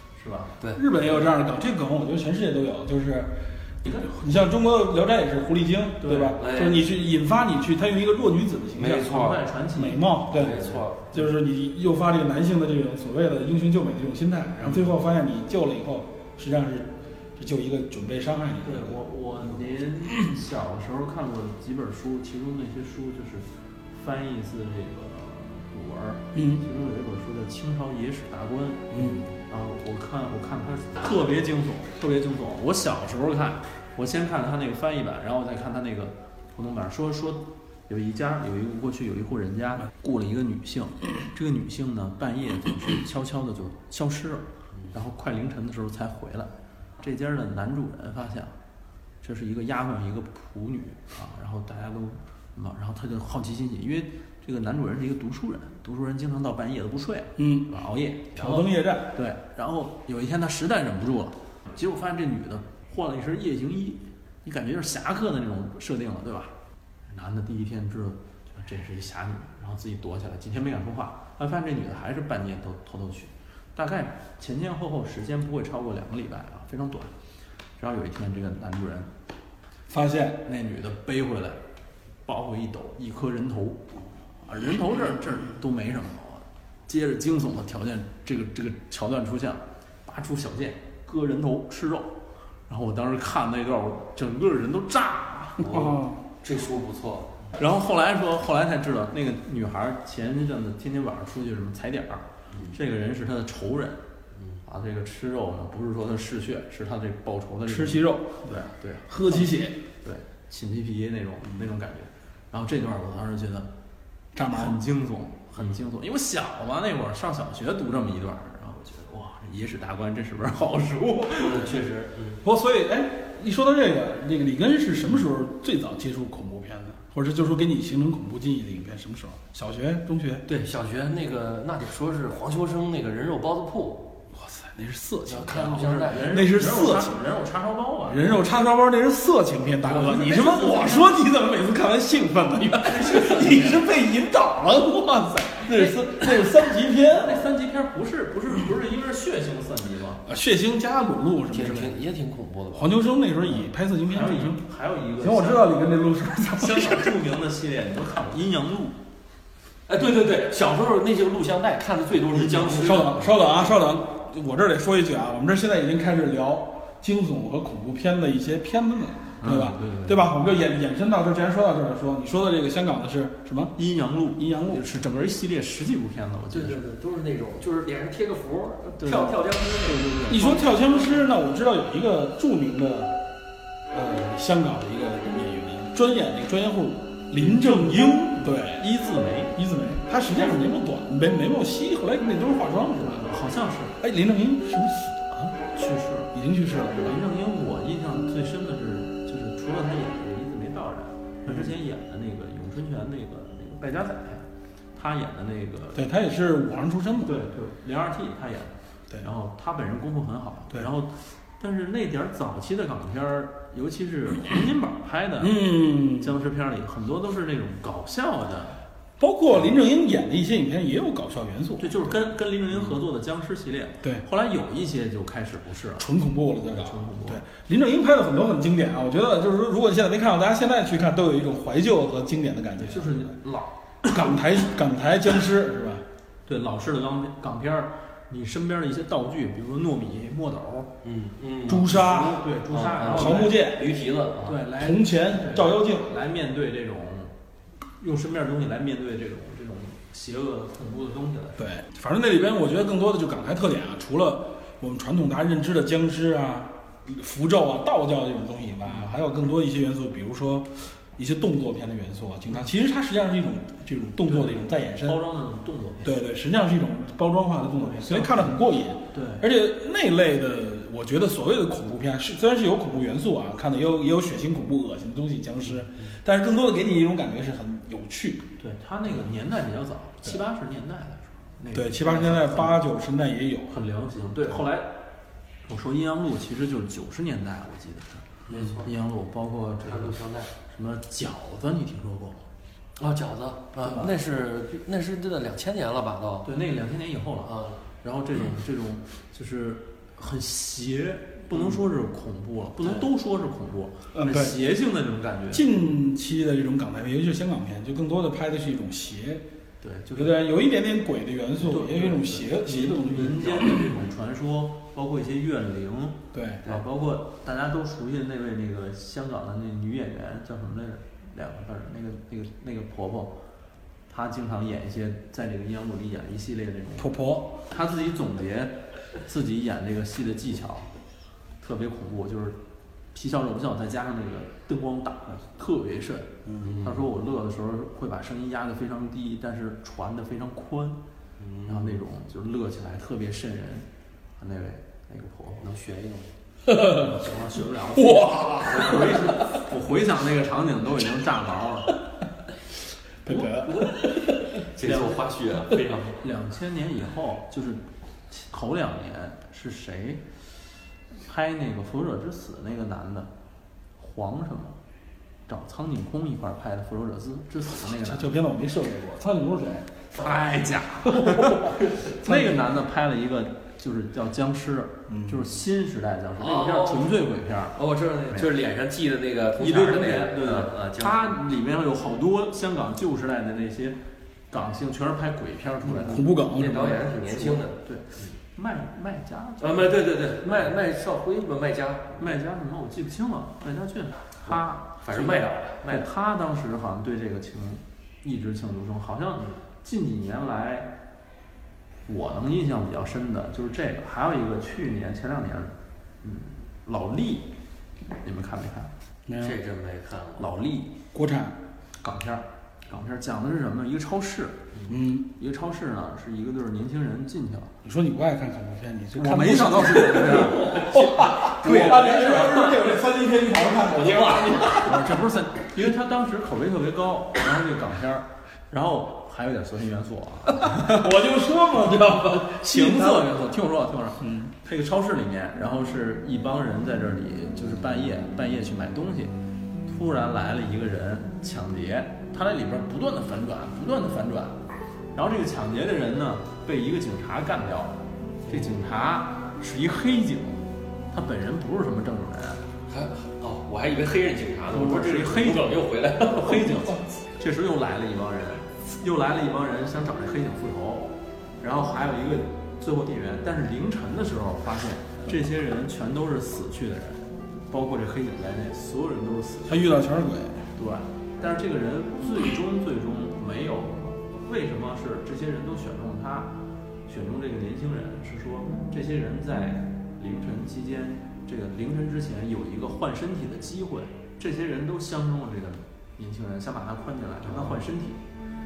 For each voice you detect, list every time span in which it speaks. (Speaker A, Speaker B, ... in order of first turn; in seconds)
Speaker A: 0.2-0.6, 3.9-4.2, 6.0-6.4, 9.0-11.2, 18.6-48.6, 49.2-66.5, 67.1-77.1, 77.8-79.1, 80.5-81.6, 82.3-83.9, 84.5-92.2, 92.7-95.7, 97.6-104.0, 104.6-113.7, 114.5-121.7, 135.5-138.4, 139.8-141.2, 142.8-143.9, 147.0-150.2, 154.1-155.8, 156.4-159.0, 169.4-170.2, 173.8-176.8, 179.0-180.7, 187.4-189.6, 193.0-194.0, 195.7-196.3, 197.0-206.1, 207.2-218.8, 221.8-226.1, 226.6-227.4, 232.8-234.1, 236.5-240.9, 241.9-243.6, 244.4-247.3, 248.0-251.7, 258.9-259.1, 264.2-266.1, 267.8-268.5, 269.1-269.5, 278.6-282.8, 283.7-285.0, 285.7-292.4, 293.8-294.1, 296.4-305.7, 309.8-310.4, 311.6-323.4, 324.1-327.1, 327.7-330.9, 331.6-332.6, 333.1-341.0, 341.7-343.9, 344.4-345.6, 346.9-352.0, 354.8-360.2, 361.2-363.3, 364.0-364.8, 365.5-368.3, 370.1-377.8, 379.6-384.0, 384.5-386.2, 387.4-390.0, 392.2-400.9, 402.1-407.5, 408.2-408.9, 410.4-410.9, 412.0-414.6, 415.3-417.8, 419.1-422.8, 424.8-431.1, 432.6-439.4, 439.9-444.6, 445.1-452.6, 454.7-470.0, 470.8-476.5, 477.1-488.2
Speaker B: 0.7-19.0, 26.3-26.6, 28.9-29.2, 57.4-57.7, 58.4-59.2, 79.9-80.4, 95.6-96.2, 107.7-108.5, 109.1-109.8, 114.3-114.8, 122.4-130.5, 134.3-137.2, 138.1-147.5, 150.3-152.0, 152.8-154.6, 155.2-157.2, 162.4-173.8, 174.4-174.9, 180.3-183.2, 183.9-188.8, 189.6-193.3, 194.0-195.6, 196.3-197.2, 201.5-201.7, 206.0-207.4, 215.4-216.3, 219.2-222.2, 226.0-233.3, 234.0-236.1, 241.7-242.4, 243.1-243.9, 244.7-246.1, 251.6-265.2, 266.0-278.4, 281.7-283.7, 304.1-304.6, 305.5-309.4, 310.1-313.9, 316.3-316.6, 327.0-327.6, 336.5-336.7, 346.7-347.2, 347.9-349.6, 353.2-354.6, 367.9-370.0, 371.1-372.7, 375.1-375.4, 386.0-387.1, 409.3-409.6, 411.1-411.6, 414.9-415.3, 417.8-424.9, 430.5-433.4, 434.2-434.5, 456.7-457.0, 469.7-470.7
Speaker C: 6.4-6.8, 8.8-9.5, 10.3-11.1, 95.6-97.4, 121.3-122.4, 130.5-134.2, 135.3-136.4, 151.5-153.0, 159.9-163.6, 176.5-180.7, 241.0-244.6, 288.5-288.9, 289.9-290.5, 293.0-296.5, 297.4-297.8, 336.6-337.0, 341.4-342.0, 345.6-346.3, 353.3-356.2, 376.4-377.2, 377.8-381.4, 386.1-388.3, 389.6-392.2, 394.5-396.1, 409.4-410.5, 420.1-425.1, 452.9-456.7